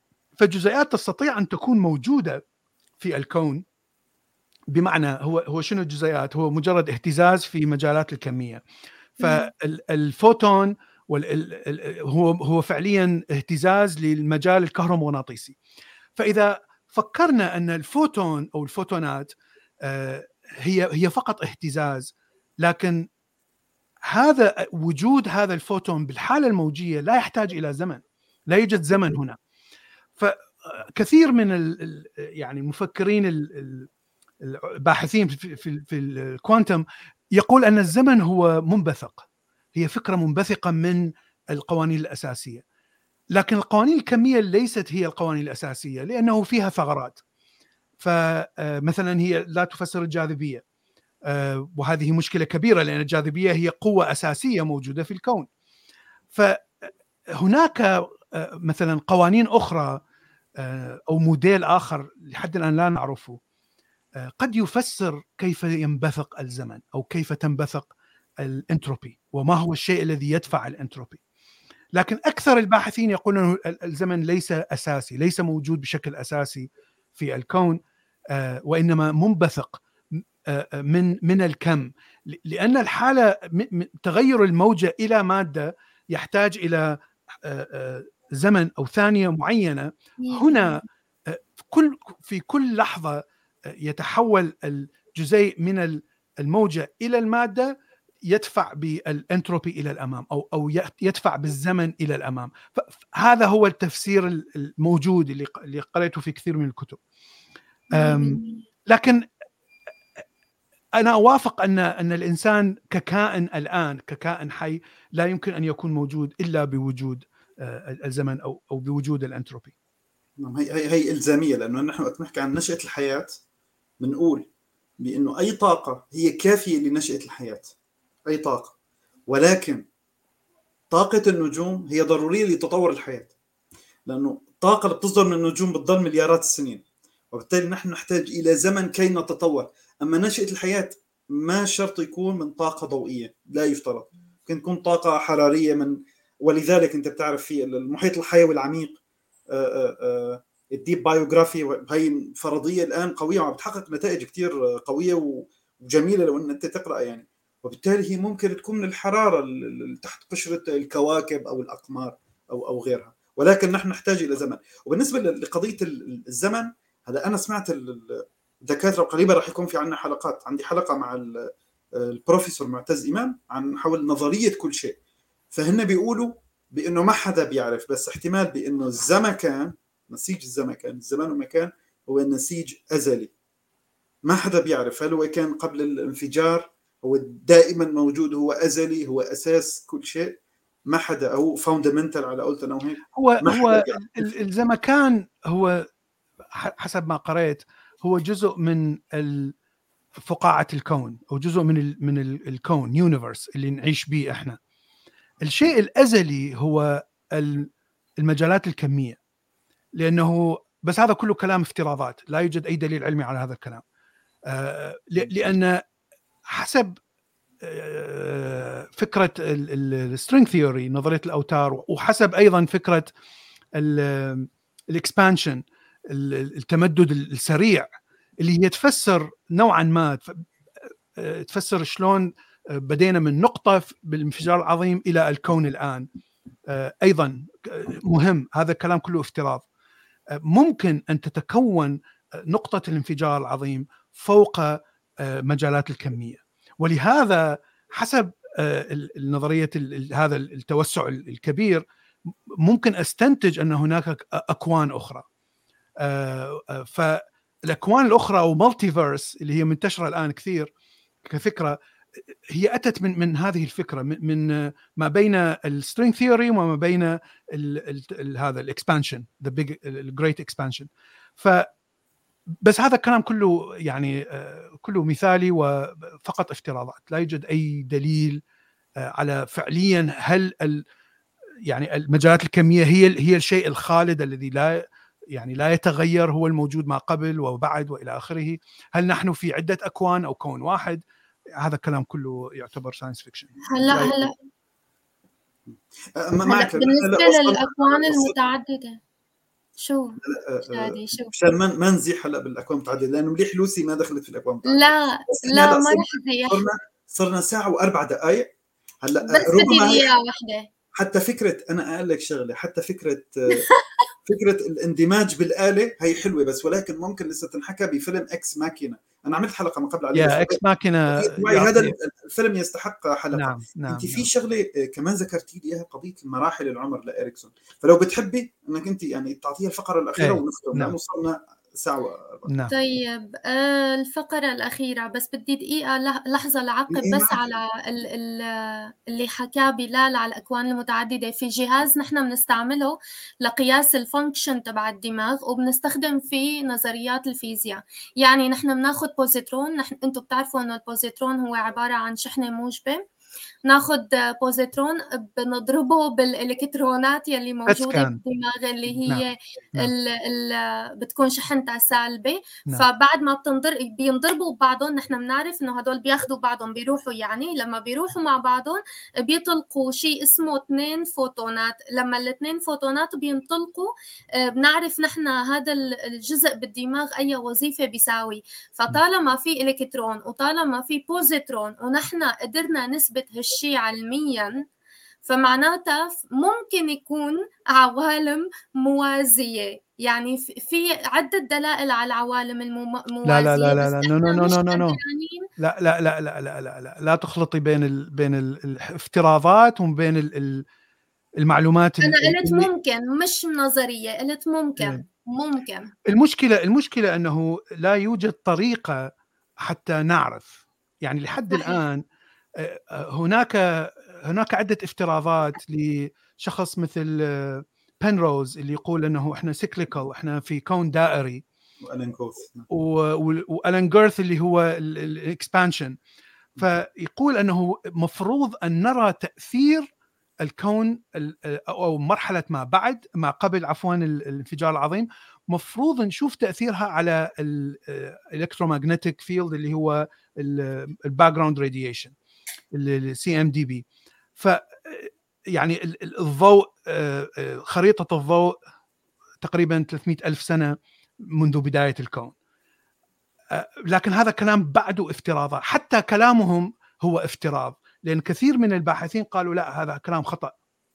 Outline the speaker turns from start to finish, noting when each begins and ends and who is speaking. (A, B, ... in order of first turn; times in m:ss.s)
0:00.4-0:02.4 A
0:03.0-0:03.6 A
0:04.7-0:08.6 A
0:09.2-0:15.6 A
0:09.2-0:09.5 B
0:16.2-0:19.3 A
0:19.8-0:23.1 A
0:24.1-0:29.4 A
0:30.2-0:33.9 A
0:34.4-0:36.8 A
0:37.4-0:42.6 A
0:43.4-0:47.2 A
0:48.0-0:50.6 A
0:51.3-0:55.5 A
0:56.3-0:56.6 A
0:57.4-1:00.0 A
1:00.6-1:03.4 A
1:04.2-1:11.2 A
1:12.0-1:17.8 A
1:18.3-1:19.8 A
1:20.5-1:33.2 A
1:30.2-1:30.8 B
1:33.8-1:37.7 A
1:38.3-1:47.0 A
1:47.9-1:49.2 A
1:47.9-1:48.6 B
1:51.0-1:59.7 A
2:00.4-2:03.3 C
2:04.0-2:04.5 C
2:05.0-2:07.7 C
2:08.3-2:08.7 C
2:09.3-2:09.8 C
2:10.9-2:13.3 C
2:14.1-2:29.0 C
2:29.5-2:55.0 C
2:55.5-3:03.3 C
3:04.3-3:10.4 C
3:10.9-3:14.4 C
3:13.2-3:15.9 A
3:16.5-3:19.5 A
3:20.3-3:24.6 A
3:25.4-3:29.2 A
3:30.0-3:33.8 A
3:34.5-3:35.8 A
3:36.5-3:37.0 A
3:37.6-3:43.1 A
3:43.8-3:47.9 A
3:48.4-3:50.4 A
3:51.2-3:56.1 A
3:56.7-3:59.6 A
4:00.4-4:11.8 A
4:12.6-4:15.2 A
4:16.0-4:20.7 A
4:21.3-4:21.8 A
4:22.5-4:31.7 A
4:32.6-4:38.4 A
4:39.0-4:40.8 A
4:41.7-4:51.0 A
4:51.6-4:54.3 A
4:53.7-4:54.3 B
4:55.7-4:58.3 C
4:56.5-4:59.0 B
4:59.8-5:01.3 B
5:00.2-5:08.5 C
5:04.7-5:06.6 B
5:09.0-5:10.1 C
5:09.3-5:10.7 B
5:11.0-5:13.7 C
5:13.6-5:14.1 B
5:14.3-5:20.6 C
5:20.1-5:21.9 A
5:21.1-5:32.4 C
5:23.3-5:24.2 A
5:30.2-5:31.0 A
5:32.5-5:32.7 A
5:32.7-5:53.0 B
5:36.9-5:37.5 C
5:53.6-6:24.6 B
5:57.7-5:58.2 A
6:25.2-6:35.5 B
6:33.2-6:35.0 A
6:35.6-6:40.6 A
6:41.4-6:42.7 A
6:42.0-6:45.9 B
6:46.1-6:49.1 A
6:49.6-6:52.0 A
6:51.5-6:51.8 B
6:52.6-7:01.4 A
7:01.8-7:02.7 C
7:02.7-7:06.0 A
7:06.6-7:09.9 A
7:10.4-7:22.1 A
7:22.7-7:23.8 A
7:24.4-7:28.6 A
7:29.4-7:30.8 A
7:31.3-7:32.3 A
7:33.5-7:40.5 A